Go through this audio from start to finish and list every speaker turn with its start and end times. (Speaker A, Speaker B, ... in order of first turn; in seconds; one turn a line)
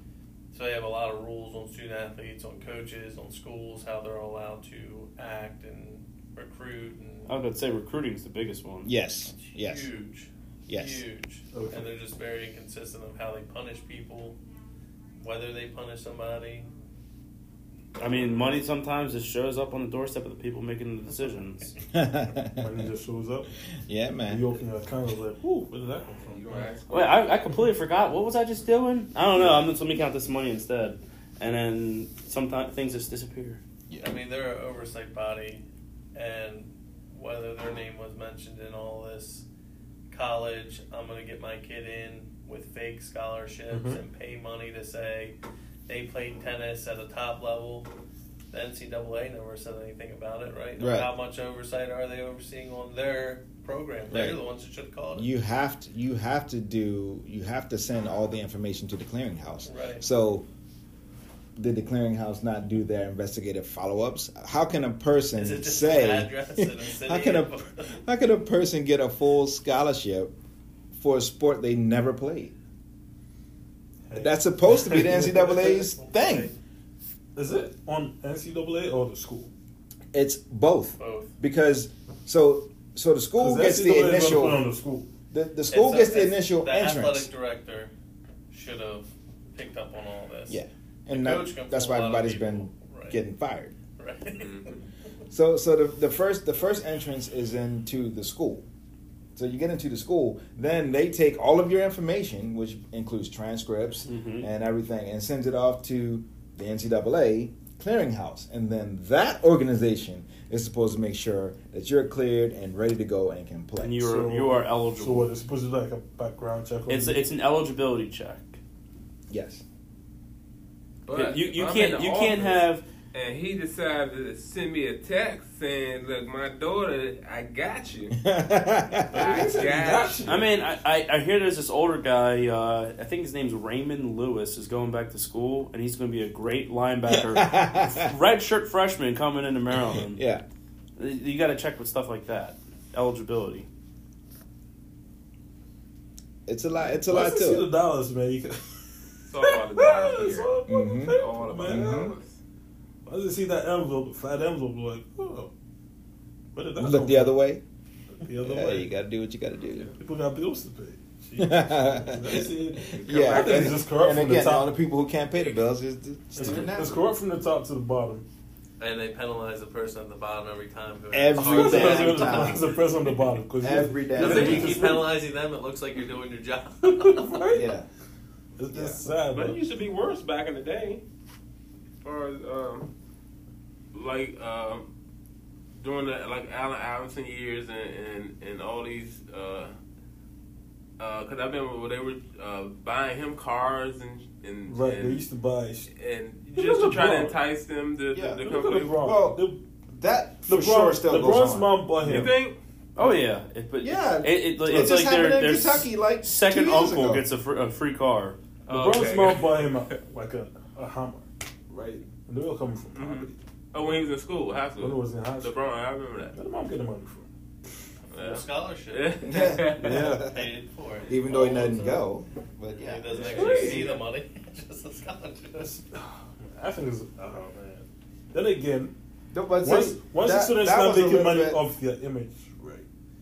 Speaker A: 0.5-7.4
Speaker B: 7.3-8.9
Speaker C: 8.8-9.9
Speaker A: 9.3-14.4
Speaker C: 10.7-11.0
Speaker D: 11.5-11.9
Speaker A: 15.2-16.7
Speaker B: 18.0-21.7
Speaker C: 21.9-22.8
Speaker D: 22.6-23.5
Speaker C: 23.9-24.4
Speaker D: 24.3-26.7
Speaker E: 26.2-27.4
Speaker B: 26.9-33.6
Speaker C: 29.4-29.7
Speaker A: 34.0-35.6
Speaker A: 36.1-39.4
Speaker A: 40.1-45.4
Speaker D: 43.7-44.0
Speaker A: 45.9-47.9
Speaker A: 48.5-55.3
Speaker C: 50.8-51.1
Speaker C: 54.1-54.4
Speaker C: 55.1-60.5
Speaker A: 59.6-60.0
Speaker C: 61.5-70.3
Speaker A: 65.3-67.9
Speaker C: 70.9-72.5
Speaker D: 74.1-75.9
Speaker C: 74.1-76.5
Speaker A: 76.1-76.5
Speaker D: 77.3-79.5
Speaker C: 80.1-84.6
Speaker A: 81.0-81.3
Speaker D: 83.4-85.1
Speaker C: 85.3-87.3
Speaker A: 85.7-87.9
Speaker A: 88.5-93.2
Speaker C: 90.5-93.7
Speaker A: 94.0-94.7
Speaker E: 94.3-94.8
Speaker C: 95.3-98.7
Speaker C: 99.3-114.1
Speaker B: 104.0-104.5
Speaker B: 113.8-115.3
Speaker D: 114.0-117.2
Speaker B: 116.9-118.6
Speaker C: 119.3-119.6
Speaker E: 121.0-128.2
Speaker B: 121.1-122.8
Speaker C: 128.2-129.5
Speaker D: 129.1-130.6
Speaker E: 129.1-130.4
Speaker B: 130.2-140.2
Speaker C: 137.1-138.1
Speaker C: 140.1-140.4
Speaker B: 140.9-143.7
Speaker C: 146.5-147.7
Speaker D: 147.1-152.1
Speaker E: 149.3-150.5
Speaker C: 150.7-152.1
Speaker E: 151.1-152.3
Speaker D: 153.0-155.5
Speaker D: 156.5-157.4
Speaker C: 156.8-157.6
Speaker D: 158.2-158.9
Speaker C: 158.4-159.9
Speaker D: 160.0-164.7
Speaker C: 161.4-167.0
Speaker E: 162.9-163.8
Speaker D: 166.3-168.2
Speaker A: 168.8-172.8
Speaker C: 171.1-172.7
Speaker D: 171.3-175.1
Speaker C: 173.6-174.8
Speaker A: 174.1-177.5
Speaker D: 176.8-177.7
Speaker C: 177.5-177.8
Speaker D: 178.6-179.6
Speaker C: 178.7-179.0
Speaker E: 179.3-181.0
Speaker E: 182.0-182.9
Speaker E: 183.9-184.9
Speaker E: 185.8-189.7
Speaker E: 191.0-195.2
Speaker D: 194.7-195.9
Speaker E: 195.9-199.1
Speaker D: 196.5-197.4
Speaker C: 198.1-198.4
Speaker D: 198.4-199.6
Speaker C: 199.0-199.4
Speaker C: 199.9-202.1
Speaker D: 200.5-202.4
Speaker E: 202.0-202.6
Speaker B: 202.9-208.4
Speaker C: 203.8-207.2
Speaker D: 208.7-213.4
Speaker E: 208.7-210.0
Speaker E: 212.9-216.3
Speaker D: 214.8-215.6
Speaker D: 216.3-217.3
Speaker E: 218.1-220.1
Speaker A: 218.1-221.8
Speaker C: 219.2-220.5
Speaker D: 219.9-220.1
Speaker C: 221.1-223.8
Speaker E: 221.3-221.7
Speaker A: 222.7-225.8
Speaker E: 223.1-224.0
Speaker D: 223.3-223.8
Speaker D: 225.6-228.9
Speaker C: 229.3-231.6
Speaker D: 229.6-232.8